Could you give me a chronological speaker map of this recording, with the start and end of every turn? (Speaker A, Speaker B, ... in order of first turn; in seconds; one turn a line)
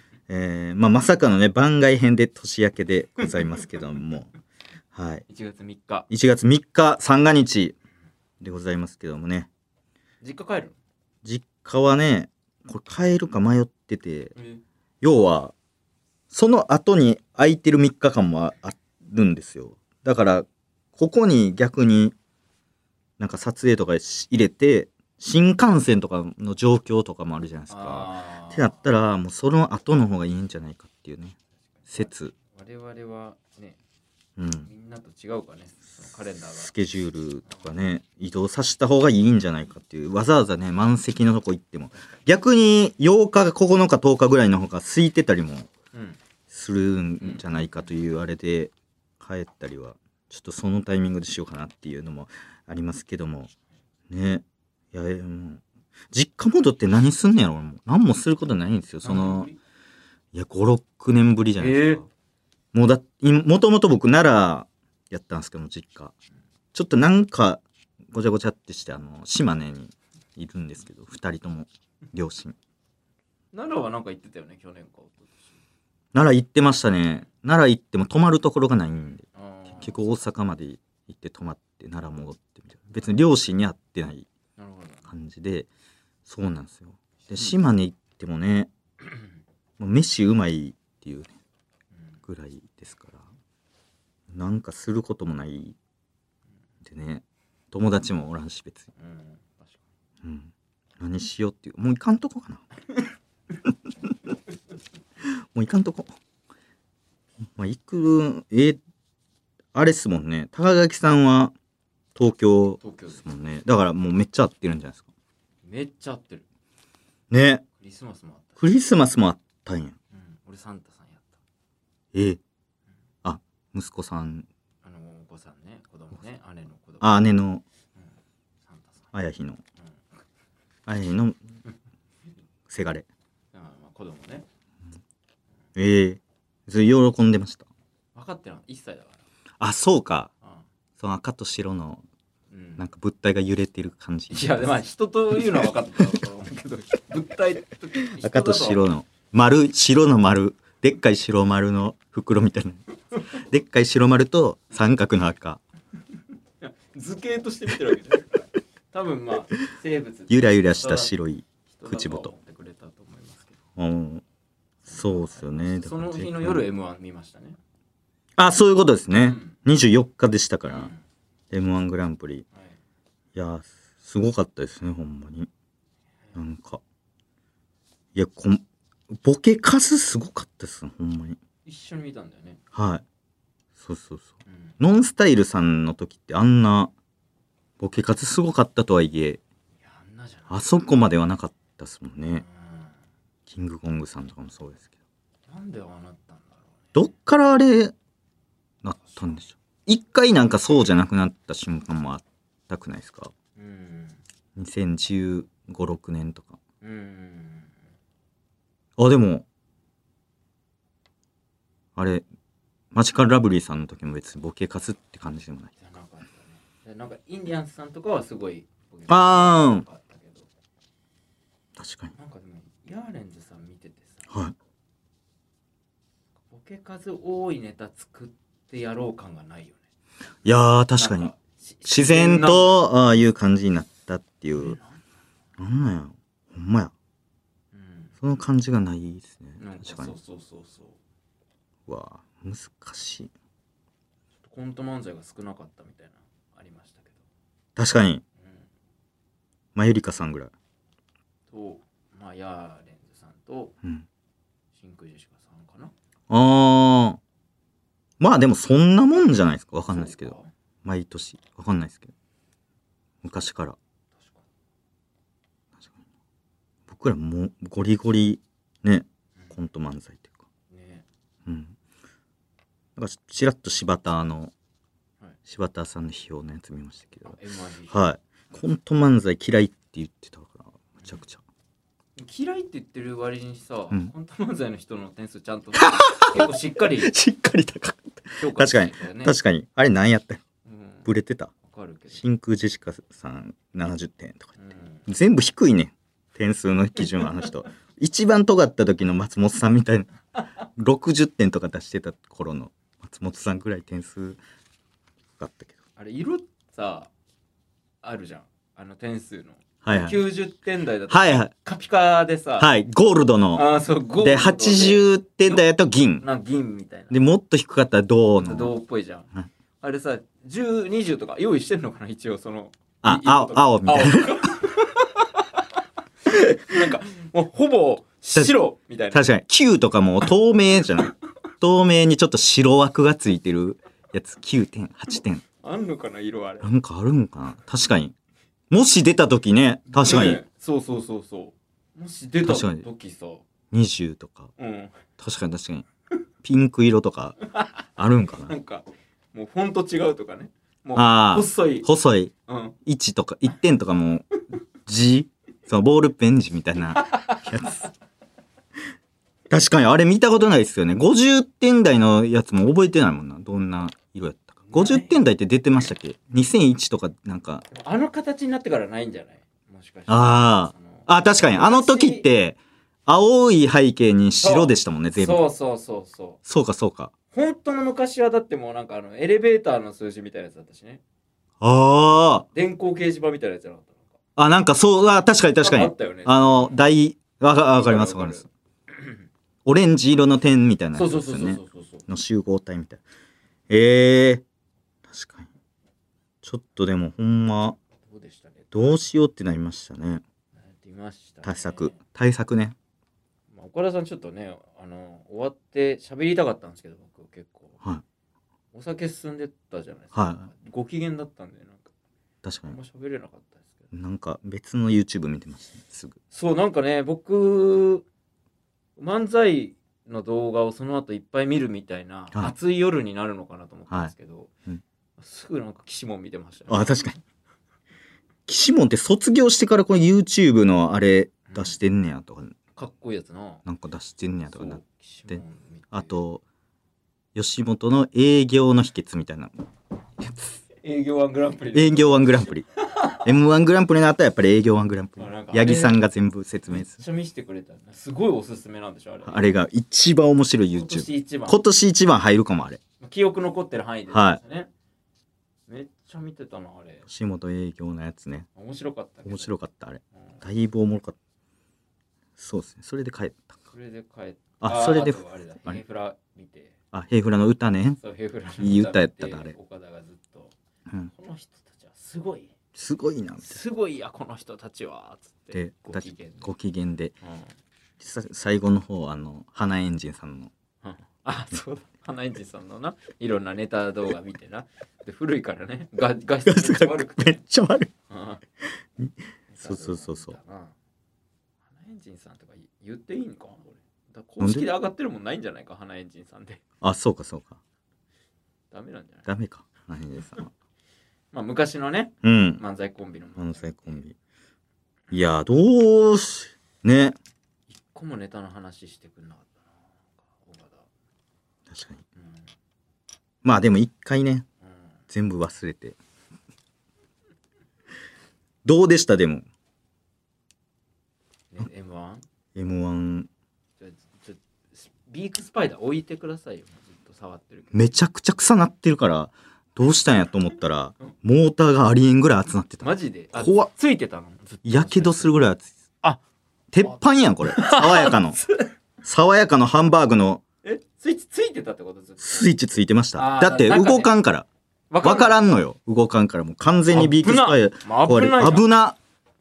Speaker A: 0.3-4.3
Speaker A: 4.9-5.2
Speaker B: 5.3-6.1
Speaker A: 6.1-7.7
Speaker A: 8.4-9.5
Speaker B: 10.2-10.8
Speaker A: 11.2-14.3
Speaker B: 14.3-14.6
Speaker A: 15.0-15.5
Speaker A: 16.3-22.1
Speaker A: 23.2-31.4
Speaker B: 27.7-28.6
Speaker B: 31.8-33.8
Speaker A: 31.9-32.3
Speaker A: 34.4-34.7
Speaker B: 34.6-36.7
Speaker A: 36.5-45.7
Speaker B: 45.9-46.2
Speaker A: 46.5-53.5
Speaker B: 47.2-47.4
Speaker A: 54.1-59.5
Speaker B: 59.0-59.5
Speaker A: 60.3-62.1
Speaker B: 61.6-62.0
Speaker A: 62.7-66.1
Speaker A: 66.7-72.5
Speaker B: 73.5-75.5
Speaker A: 76.1-84.3
Speaker B: 79.3-80.0
Speaker B: 84.6-85.1
Speaker A: 85.1-85.7
Speaker A: 86.2-88.7
Speaker A: 89.8-91.3
Speaker B: 91.9-92.2
Speaker A: 92.2-93.2
Speaker A: 94.3-95.8
Speaker A: 96.8-98.9
Speaker B: 99.0-99.8
Speaker A: 100.2-102.7
Speaker A: 105.5-106.1
Speaker A: 107.5-108.8
Speaker A: 109.7-111.5
Speaker A: 112.1-115.0
Speaker B: 112.8-113.2
Speaker B: 115.6-116.4
Speaker A: 117.3-117.6
Speaker B: 117.8-118.6
Speaker A: 118.6-119.9
Speaker B: 120.1-121.4
Speaker A: 122.1-122.4
Speaker A: 123.2-124.5
Speaker B: 124.8-127.1
Speaker A: 127.0-127.6
Speaker B: 128.6-129.1
Speaker A: 129.1-129.6
Speaker A: 130.9-131.4
Speaker A: 132.7-133.1
Speaker B: 133.5-134.5
Speaker A: 135.8-137.7
Speaker B: 138.1-139.2
Speaker A: 139.6-140.3
Speaker A: 141.0-142.0
Speaker B: 142.5-142.8
Speaker A: 142.8-144.8
Speaker B: 144.3-148.9
Speaker A: 148.0-155.6
Speaker B: 156.6-161.1
Speaker A: 160.3-162.3
Speaker B: 161.7-163.6
Speaker A: 163.8-164.2
Speaker B: 164.8-167.6
Speaker A: 164.9-166.6
Speaker A: 168.4-170.9
Speaker B: 169.1-169.6
Speaker B: 170.7-171.0
Speaker A: 171.5-172.4
Speaker A: 173.3-175.5
Speaker A: 176.3-176.8
Speaker A: 178.1-181.4
Speaker B: 181.7-182.6
Speaker A: 182.7-183.0
Speaker A: 183.8-186.9
Speaker A: 187.8-189.4
Speaker B: 189.8-190.8
Speaker A: 190.5-192.4
Speaker B: 192.4-192.9
Speaker A: 193.5-194.9
Speaker B: 195.5-196.9
Speaker A: 196.9-197.9
Speaker A: 198.8-203.3
Speaker B: 203.6-204.2
Speaker A: 204.6-206.6
Speaker B: 206.8-207.7
Speaker A: 209.0-209.4
Speaker A: 211.9-212.2
Speaker A: 212.9-215.7
Speaker B: 215.8-220.5
Speaker A: 219.1-219.8
Speaker A: 221.8-222.1
Speaker B: 222.2-224.2
Speaker A: 224.3-224.5
Speaker B: 226.5-229.8
Speaker A: 230.4-231.3
Speaker B: 231.0-232.7
Speaker A: 231.8-234.8
Speaker B: 234.6-235.0
Speaker A: 235.6-236.9
Speaker B: 237.7-238.1
Speaker A: 238.2-240.1
Speaker B: 239.6-241.0
Speaker A: 241.9-243.3
Speaker B: 244.4-247.2
Speaker A: 247.8-248.2
Speaker B: 248.4-248.7
Speaker A: 249.7-250.5
Speaker B: 251.5-253.8
Speaker B: 254.7-255.9
Speaker A: 256.3-257.2
Speaker A: 258.2-262.1
Speaker B: 259.9-260.5
Speaker A: 263.2-263.8
Speaker B: 264.1-264.4
Speaker A: 266.9-270.4
Speaker B: 270.7-271.1
Speaker A: 271.4-271.7
Speaker A: 272.9-274.5
Speaker A: 275.4-277.4
Speaker B: 277.2-277.9
Speaker A: 277.9-281.4
Speaker B: 282.2-287.1
Speaker A: 285.8-290.4
Speaker B: 288.4-289.3
Speaker B: 290.6-291.1
Speaker A: 291.1-291.5
Speaker B: 291.6-292.2
Speaker A: 292.1-300.1
Speaker B: 294.6-295.0
Speaker A: 300.7-304.4
Speaker A: 305.4-305.8
Speaker B: 306.0-307.1
Speaker B: 308.0-312.7
Speaker A: 309.8-310.2
Speaker A: 311.1-311.5
Speaker A: 312.6-313.6
Speaker B: 313.5-315.6
Speaker A: 314.2-316.2
Speaker B: 316.2-317.2
Speaker A: 317.1-318.7
Speaker B: 318.4-319.3
Speaker B: 319.8-325.7
Speaker A: 323.0-324.5
Speaker B: 326.2-329.2
Speaker A: 329.1-335.4
Speaker B: 335.6-336.7
Speaker A: 336.6-338.1
Speaker A: 338.7-340.4
Speaker B: 339.9-343.4
Speaker A: 342.4-342.9
Speaker A: 343.7-344.5
Speaker B: 344.6-345.0
Speaker A: 345.2-345.8
Speaker A: 346.4-347.4
Speaker A: 348.0-348.5
Speaker B: 348.4-351.9
Speaker A: 350.9-352.3
Speaker B: 352.5-352.8
Speaker A: 352.8-354.2
Speaker A: 354.9-357.9
Speaker B: 357.0-357.4
Speaker A: 359.5-367.6
Speaker B: 364.7-365.1
Speaker B: 367.7-372.3
Speaker A: 370.1-375.4
Speaker B: 374.4-376.4
Speaker A: 376.4-377.1
Speaker B: 377.3-381.0
Speaker A: 381.6-382.4
Speaker B: 382.5-384.1
Speaker A: 384.4-388.5
Speaker B: 385.6-386.8
Speaker B: 387.7-389.1
Speaker A: 389.6-393.0
Speaker B: 390.9-392.0
Speaker A: 393.7-394.4
Speaker A: 395.1-395.5
Speaker A: 396.4-397.8
Speaker B: 398.0-398.7
Speaker A: 398.7-400.2
Speaker B: 400.6-402.0
Speaker A: 401.4-402.7
Speaker B: 403.5-407.8
Speaker B: 408.7-411.9
Speaker A: 410.1-410.5
Speaker A: 412.4-412.8
Speaker B: 412.7-413.7
Speaker A: 413.9-416.2
Speaker B: 416.3-418.0
Speaker B: 419.0-424.5
Speaker B: 425.2-427.0
Speaker A: 426.7-427.2
Speaker A: 428.5-432.6
Speaker B: 432.8-433.6
Speaker A: 433.6-436.4
Speaker B: 434.6-436.1
Speaker A: 437.3-439.6
Speaker B: 440.8-443.2
Speaker A: 441.7-442.6
Speaker A: 443.2-447.0
Speaker B: 445.2-446.0
Speaker B: 446.7-449.5
Speaker A: 449.2-452.8
Speaker B: 450.7-451.6
Speaker B: 453.0-454.7
Speaker A: 454.1-454.4
Speaker B: 455.7-457.0
Speaker A: 457.1-458.5
Speaker B: 458.5-459.5
Speaker A: 459.2-461.2
Speaker A: 462.4-463.5
Speaker B: 463.7-466.7
Speaker A: 464.6-465.8
Speaker A: 466.9-468.0
Speaker B: 468.0-470.5
Speaker A: 468.6-469.5
Speaker B: 471.1-472.5
Speaker A: 472.7-473.6
Speaker B: 473.4-476.5
Speaker A: 475.5-477.1
Speaker B: 477.2-477.5
Speaker A: 478.0-480.5
Speaker B: 480.8-487.4
Speaker A: 486.4-487.9
Speaker B: 488.1-488.4
Speaker A: 489.0-490.4
Speaker B: 489.5-490.7
Speaker B: 491.6-496.6
Speaker A: 494.4-494.7
Speaker A: 496.8-497.6
Speaker B: 498.7-499.3
Speaker A: 499.3-500.5
Speaker B: 501.3-504.0
Speaker A: 502.2-502.6
Speaker A: 503.4-504.1
Speaker A: 505.1-507.2
Speaker B: 507.7-510.9
Speaker A: 511.7-512.0
Speaker B: 512.2-512.5
Speaker A: 513.4-514.5
Speaker A: 515.1-516.0
Speaker A: 518.6-519.5
Speaker B: 521.5-522.2
Speaker A: 522.5-523.3
Speaker B: 523.8-527.8
Speaker A: 527.7-533.7
Speaker B: 532.8-535.4
Speaker A: 534.6-535.7
Speaker A: 536.7-538.4
Speaker B: 537.5-538.7
Speaker A: 539.0-540.4
Speaker B: 540.6-542.5
Speaker A: 542.2-544.5
Speaker B: 543.1-544.1
Speaker B: 544.9-545.4
Speaker A: 545.0-549.0
Speaker B: 546.9-548.7